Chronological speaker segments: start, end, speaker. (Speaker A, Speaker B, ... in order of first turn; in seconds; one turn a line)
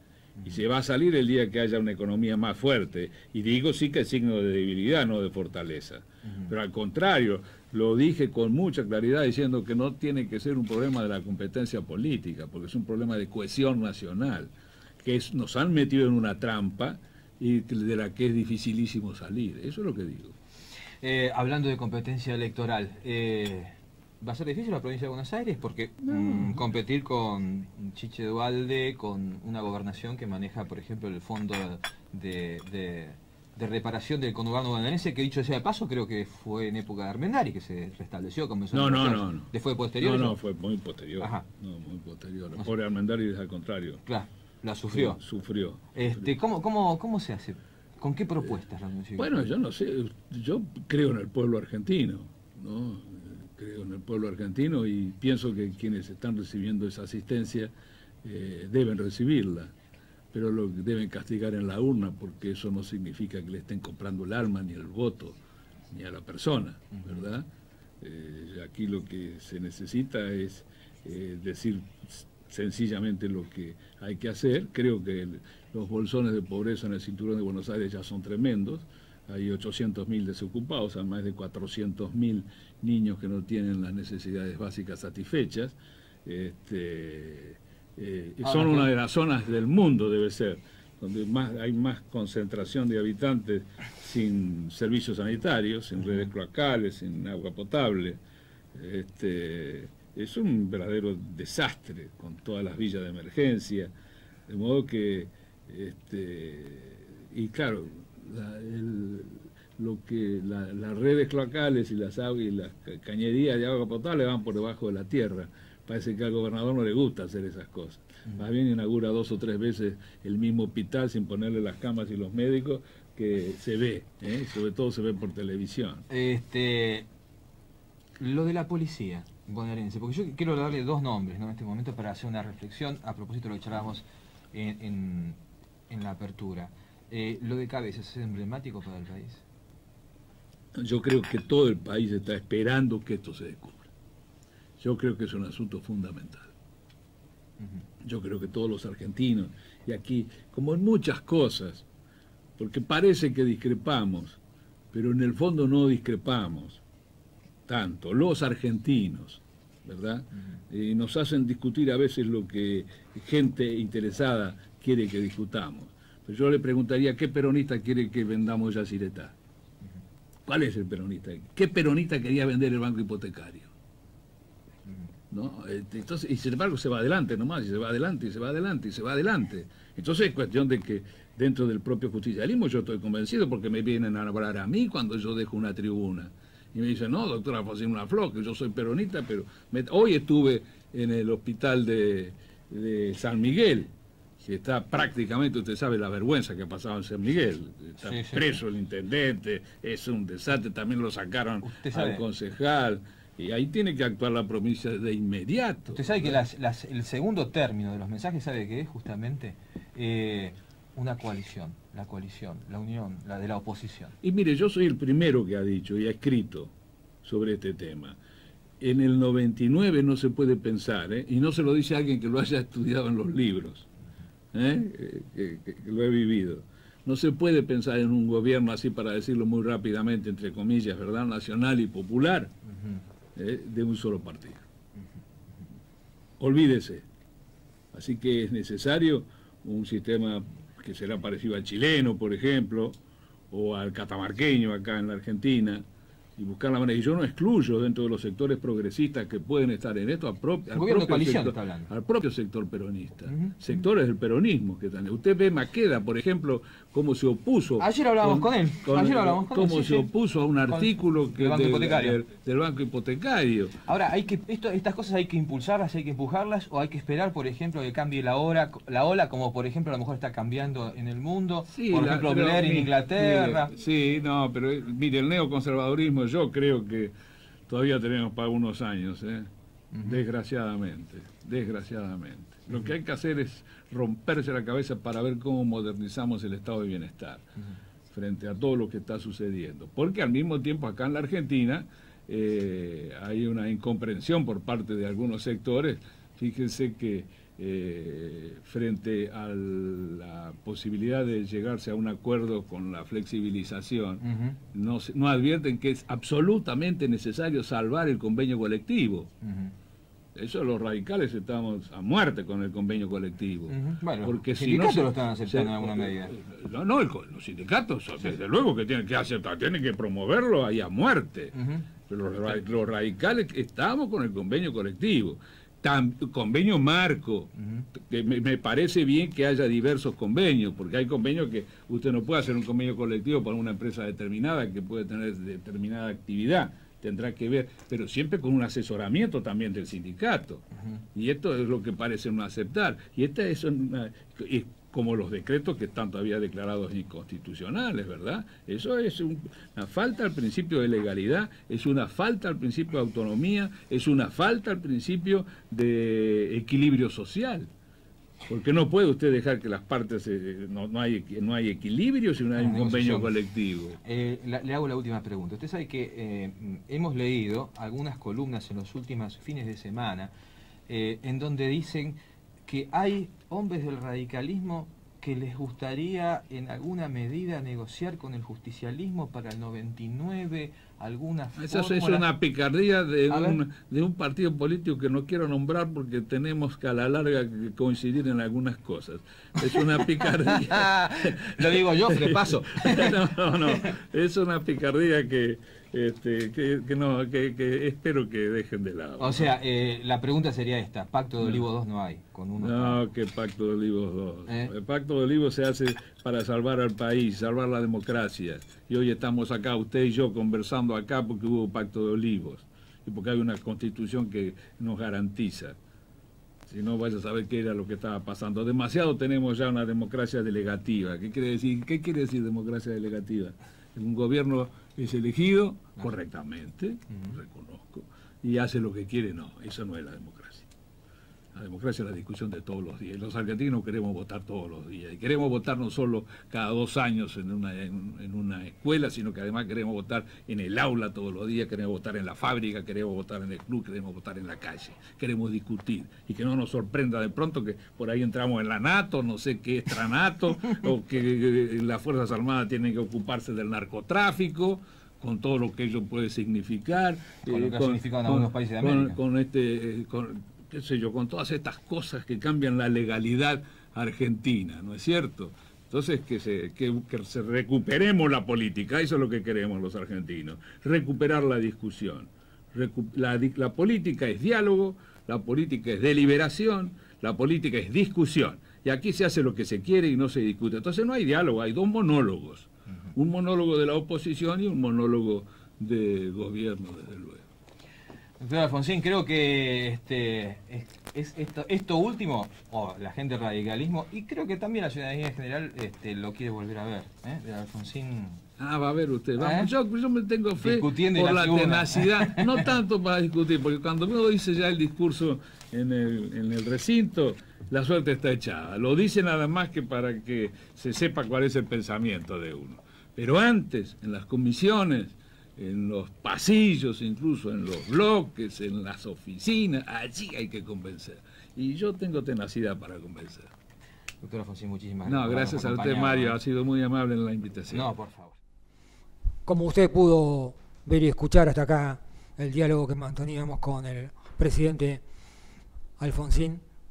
Speaker A: 0.4-20.4
Speaker B: 6.3-6.5
Speaker B: 21.0-40.4
Speaker A: 26.1-26.6
Speaker A: 38.7-44.0
Speaker B: 41.2-41.5
Speaker B: 44.1-45.2
Speaker A: 44.9-46.3
Speaker B: 46.0-49.5
Speaker A: 49.2-57.7
Speaker A: 58.2-59.7
Speaker A: 60.3-65.4
Speaker A: 65.9-67.5
Speaker B: 66.9-67.2
Speaker A: 68.0-98.2
Speaker B: 88.4-88.9
Speaker A: 98.7-103.9
Speaker A: 104.5-126.0
Speaker B: 126.1-127.1
Speaker B: 128.2-135.4
Speaker B: 135.9-139.4
Speaker A: 140.8-143.9
Speaker A: 144.8-146.5
Speaker B: 147.6-147.8
Speaker A: 148.0-151.8
Speaker A: 152.6-154.4
Speaker A: 154.9-156.8
Speaker A: 157.7-169.3
Speaker A: 170.5-173.7
Speaker A: 175.3-206.4
Speaker B: 198.0-198.6
Speaker B: 201.6-202.2
Speaker B: 205.9-214.2
Speaker A: 214.2-216.7
Speaker A: 217.2-218.2
Speaker A: 218.8-223.9
Speaker A: 224.5-232.5
Speaker A: 233.3-234.6
Speaker A: 236.4-237.1
Speaker A: 237.9-243.0
Speaker A: 243.5-245.8
Speaker A: 246.4-263.8
Speaker B: 250.7-251.9
Speaker B: 253.3-253.6
Speaker B: 257.8-260.1
Speaker B: 260.7-262.2
Speaker B: 263.9-273.7
Speaker A: 271.7-277.1
Speaker A: 277.7-279.5
Speaker B: 279.9-280.2
Speaker A: 280.0-287.4
Speaker A: 288.1-309.3
Speaker B: 304.2-304.6
Speaker B: 309.4-309.7
Speaker A: 310.4-321.6
Speaker B: 313.7-316.3
Speaker B: 321.6-321.9
Speaker A: 322.1-357.7
Speaker B: 327.6-327.9
Speaker A: 358.5-364.0
Speaker B: 362.6-363.3
Speaker B: 364.0-370.3
Speaker B: 370.9-382.3
Speaker A: 381.6-399.5
Speaker B: 383.3-383.6
Speaker B: 390.4-393.2
Speaker B: 399.2-403.0
Speaker A: 402.6-415.8
Speaker B: 404.5-404.7
Speaker A: 416.7-430.7
Speaker B: 427.1-427.4
Speaker A: 431.5-487.4
Speaker B: 457.4-459.2
Speaker B: 488.4-498.4
Speaker A: 498.6-523.5
Speaker B: 499.4-499.7
Speaker B: 500.6-502.7
Speaker B: 524.2-526.4
Speaker A: 525.1-527.9
Speaker B: 527.7-528.4
Speaker C: 529.5-535.0
Speaker C: 536.0-536.6